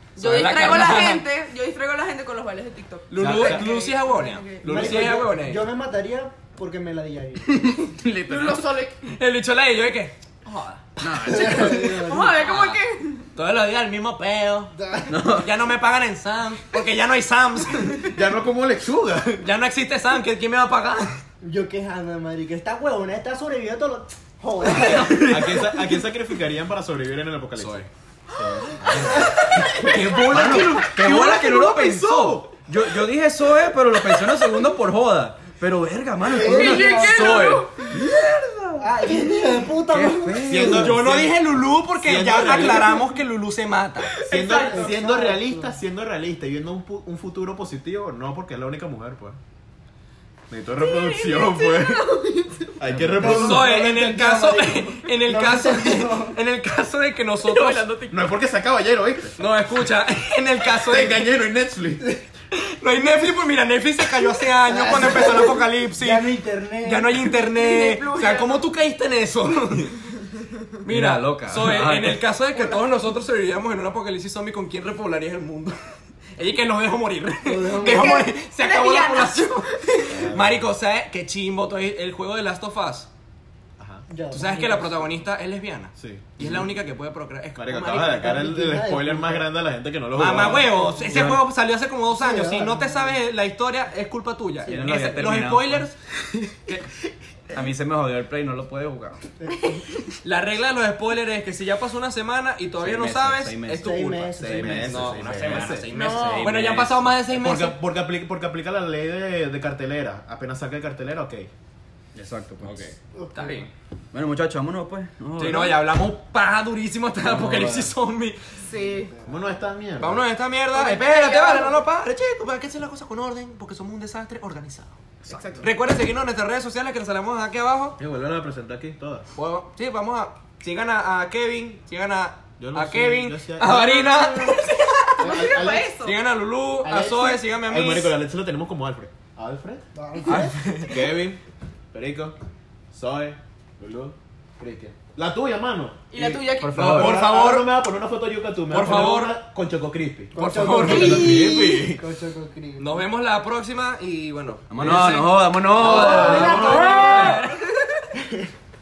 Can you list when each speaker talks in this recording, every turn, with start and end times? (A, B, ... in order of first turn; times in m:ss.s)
0:00.2-0:01.2 A
0:00.2-0:04.7 B
0:03.1-0:05.7 A
0:03.2-0:03.7 C
0:04.6-0:07.7 D
0:04.7-0:05.2 C
0:07.5-0:07.9 A
0:08.0-0:08.7 E
0:08.2-0:09.0 B
0:09.0-0:10.2 A
0:10.5-0:10.8 B
0:11.0-0:12.8 A
0:11.0-0:11.9 E
0:11.2-0:12.4 D
0:11.6-0:13.3 B
0:13.4-0:18.1 A
0:14.7-0:15.3 D
0:15.1-0:15.5 E
0:18.1-0:19.5 C
0:19.4-0:21.2 A
0:21.4-0:25.6 D
0:24.7-0:25.7 A
0:24.7-0:27.9 C
0:27.6-0:27.9 A
0:28.3-0:38.0 E
0:28.9-0:32.5 C
0:29.0-0:29.9 D
0:29.1-0:30.9 A
0:36.2-0:37.5 D
0:36.4-0:38.0 B
0:37.4-0:38.4 A
0:38.8-0:40.7 D
0:39.1-0:41.0 E
0:40.5-0:43.0 C
0:40.5-0:44.2 A
0:44.1-0:45.0 B
0:44.2-0:49.4 C
0:44.5-0:45.8 D
0:50.5-0:52.1 C
0:50.8-0:52.7 B
0:52.8-0:53.8 C
0:53.1-0:56.4 D
0:53.2-0:58.3 A
0:58.1-0:59.4 C
0:59.4-1:01.3 A
1:00.7-1:02.1 C
1:02.5-1:10.1 A
1:04.6-1:07.3 D
1:07.4-1:08.6 B
1:10.8-1:15.8 A
1:10.9-1:12.2 E
1:16.4-1:23.1 A
1:17.4-1:18.3 D
1:17.8-1:20.0 B
1:20.1-1:20.7 C
1:23.8-1:24.1 C
1:24.1-1:25.1 D
1:24.3-1:28.3 A
1:26.0-1:26.7 C
1:27.6-1:31.4 C
1:28.1-1:29.5 D
1:30.1-1:36.9 A
1:30.3-1:31.4 D
1:32.1-1:33.2 D
1:34.6-1:35.9 E
1:34.6-1:34.9 D
1:37.5-1:39.3 E
1:39.4-1:39.9 D
1:40.2-1:47.8 A
1:42.8-1:47.2 E
1:43.8-1:45.0 D
1:44.5-1:45.9 C
1:45.9-1:46.5 B
1:47.3-1:51.5 C
1:52.2-1:52.9 E
1:52.6-1:53.7 A
1:53.1-1:53.7 D
1:54.1-1:55.8 E
1:55.4-1:58.4 A
1:57.2-1:57.9 E
1:58.6-1:59.1 B
1:58.7-1:59.7 D
1:59.2-2:00.3 C
2:00.0-2:05.0 A
2:00.7-2:01.8 B
2:05.3-2:05.7 C
2:05.3-2:05.7 B
2:05.6-2:08.0 A
2:08.0-2:09.3 C
2:09.4-2:15.5 A
2:12.6-2:14.6 C
2:14.3-2:14.6 B
2:15.1-2:16.2 B
2:15.2-2:15.9 C
2:16.0-2:18.2 A
2:16.8-2:19.8 C
2:19.9-2:20.8 D
2:20.3-2:21.0 A
2:20.8-2:21.4 C
2:21.9-2:22.4 C
2:22.9-2:32.0 C
2:26.1-2:27.2 B
2:26.6-2:27.2 E
2:26.8-2:27.8 A
2:28.7-2:29.4 A
2:30.3-2:33.1 D
2:30.4-2:31.4 A
2:30.8-2:31.9 B
2:32.8-2:37.6 A
2:34.7-2:36.8 E
2:35.8-2:38.1 B
2:35.8-2:37.2 C